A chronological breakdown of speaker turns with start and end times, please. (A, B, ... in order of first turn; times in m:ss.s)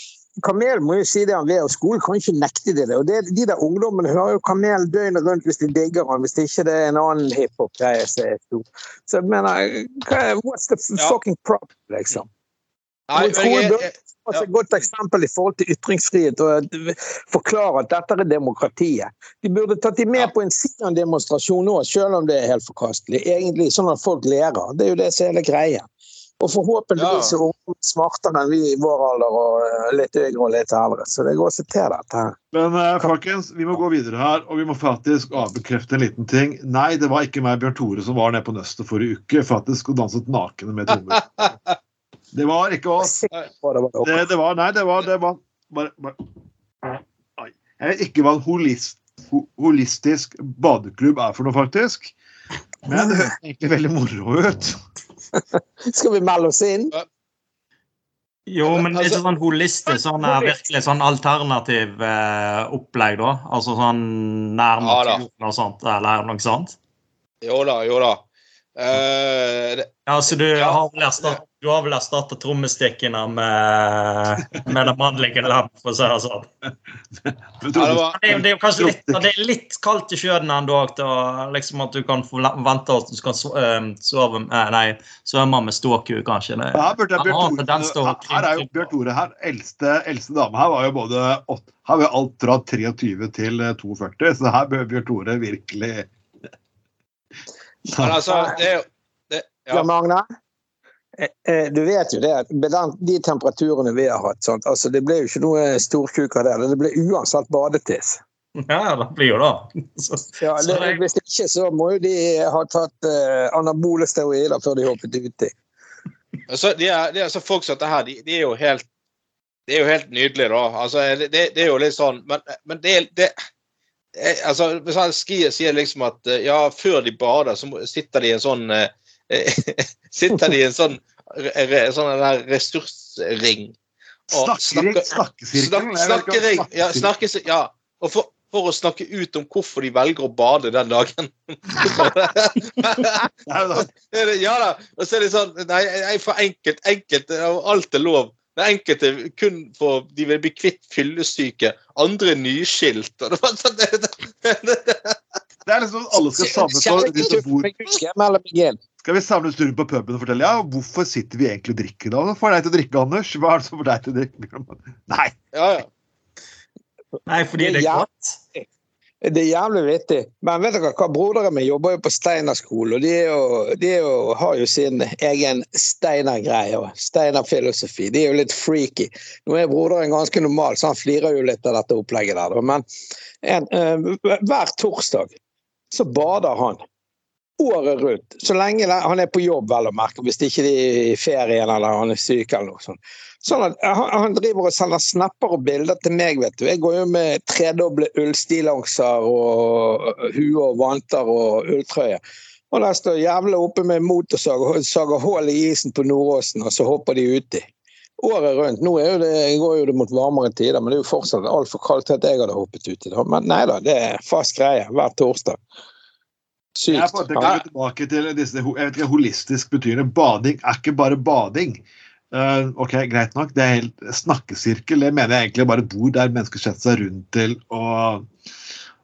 0:00.4-0:12.3 A
0:13.1-0:14.4 B
0:13.2-0:25.9 A
0:26.4-0:32.4 A
0:27.0-0:27.4 B
0:32.5-0:41.4 C
0:42.3-0:43.2 C
0:43.0-0:44.2 A
0:44.0-0:46.3 C
0:46.8-0:52.1 C
0:52.8-0:54.8 C
0:55.4-0:56.9 A
0:58.5-1:06.8 D
0:58.6-0:59.2 B
1:00.2-1:00.5 A
1:04.8-1:05.2 B
1:07.4-1:08.2 B
1:08.8-1:09.9 B
1:10.1-1:16.5 D
1:10.5-1:11.4 B
1:17.2-1:19.2 C
1:17.8-1:18.2 B
1:18.1-1:28.7 D
1:26.7-1:36.1 C
1:37.9-1:38.2 C
1:38.0-1:39.9 B
1:38.2-1:38.6 A
1:39.7-1:40.2 A
1:41.2-1:48.2 A
1:48.6-1:51.0 D
1:50.4-1:55.5 A
1:56.5-1:58.9 B
1:59.7-2:03.3 B
2:04.2-2:13.8 B
2:14.3-2:17.1 C
2:14.3-2:35.2 B
2:23.5-2:23.9 C
2:35.7-2:37.7 C
2:36.4-2:38.8 A
2:39.0-2:45.4 C
2:45.5-2:45.9 B
2:47.3-2:48.4 D
2:47.6-2:48.7 A
2:49.2-3:02.8 A
3:03.4-3:05.4 A
3:05.9-3:06.8 A
3:07.6-3:22.2 A
3:22.7-3:27.7 A
3:28.2-3:35.6 A
3:36.8-3:37.5 A
3:36.9-3:48.3 C